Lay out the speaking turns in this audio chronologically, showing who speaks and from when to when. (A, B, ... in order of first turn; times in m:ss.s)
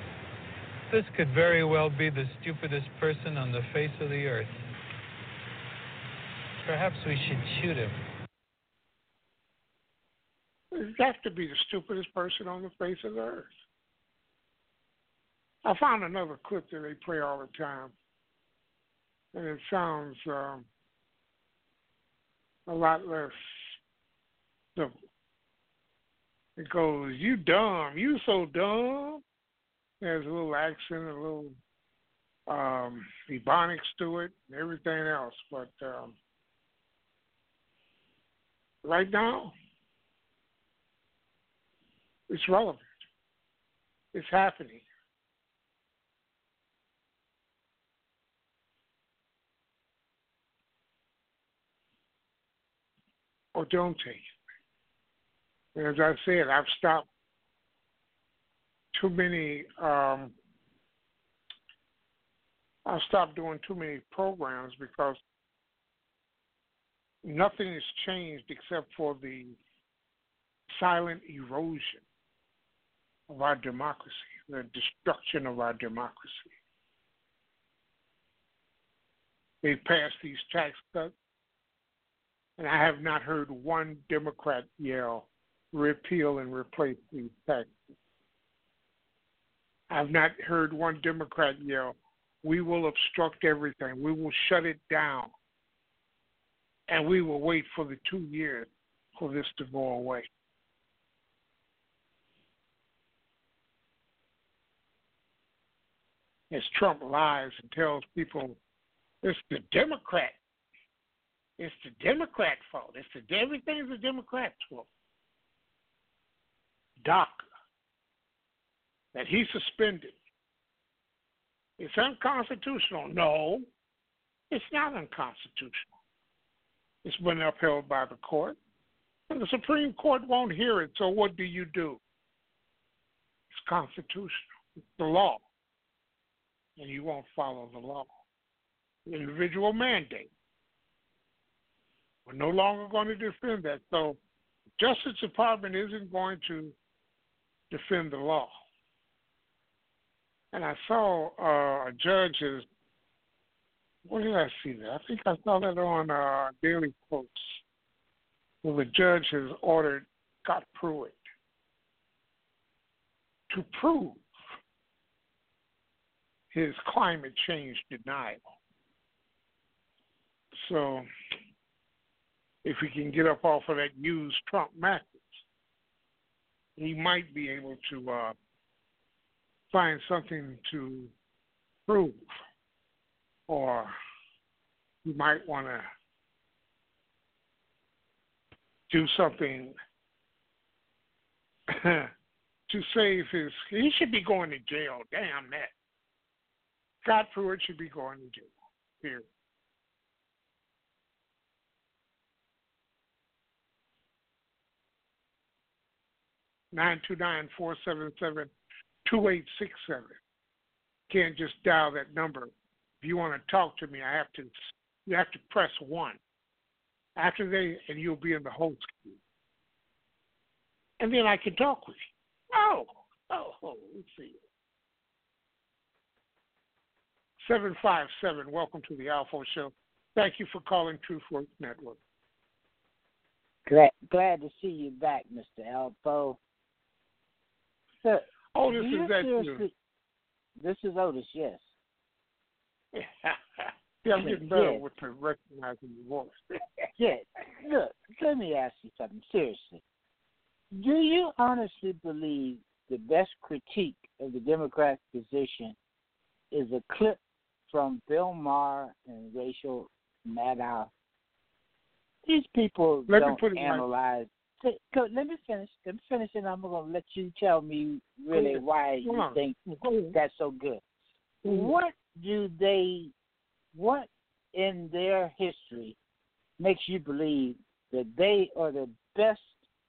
0:00.9-0:04.6 A
0:06.6-0:08.0 A
0:10.7-0:13.5 B
0:15.6-0:17.9 B
0:19.3-0:20.6 B
0:22.7-0:23.8 B
0:26.6-0:29.2 B
0:30.0-0:31.5 B
0:32.5-0:36.1 B
0:38.8-0:39.5 B
0:42.3-0:42.9 B
0:44.1-0:44.8 B
0:53.5-0:54.2 B
0:55.7-0:57.0 B
0:58.9-1:00.3 B
1:02.8-1:05.2 B
1:07.2-1:09.6 B
1:10.7-1:12.0 B
1:13.3-1:16.5 B
1:19.6-1:21.1 B
1:22.6-1:27.7 B
1:29.9-1:35.3 B
1:36.9-1:40.3 B
1:46.5-1:48.6 B
1:49.2-1:50.4 B
1:51.6-1:54.9 B
1:57.0-1:57.4 B
1:59.1-2:00.1 B
2:01.8-2:03.6 B
2:04.5-2:05.9 B
2:07.0-2:08.6 B
2:09.3-2:12.0 B
2:13.5-2:15.4 B
2:16.8-2:18.1 B
2:19.1-2:20.3 B
2:22.3-2:24.2 B
2:24.8-2:26.7 B
2:27.7-2:28.6 B
2:30.5-2:32.6 B
2:34.0-2:37.6 B
2:38.6-2:41.2 B
2:43.5-2:44.2 B
2:46.5-2:48.4 B
2:50.5-2:51.1 B
2:52.6-2:55.4 B
2:56.8-2:58.3 B
2:59.7-3:01.1 B
3:01.9-3:02.4 B
3:03.5-3:03.9 B
3:05.0-3:05.9 B
3:08.9-3:09.7 B
3:11.7-3:12.1 B
3:12.7-3:15.7 B
3:17.0-3:19.2 B
3:26.7-3:28.5 B
3:29.0-3:30.2 B
3:31.1-3:36.2 B
3:37.2-3:39.2 B
3:41.0-3:44.4 B
3:47.4-3:52.0 B
3:53.7-3:56.4 C
3:58.0-3:59.7 C
3:58.5-3:59.6 B
4:00.6-4:01.7 C
4:02.9-4:06.6 B
4:04.1-4:04.8 C
4:07.0-4:09.8 C
4:10.7-4:15.7 C
4:16.5-4:17.2 C
4:17.7-4:20.9 C
4:22.2-4:29.6 C
4:23.1-4:23.8 B
4:28.3-4:30.2 B
4:30.1-4:30.8 C
4:31.4-4:33.1 C
4:31.4-4:31.7 B
4:33.7-4:35.9 C
4:36.6-4:39.6 C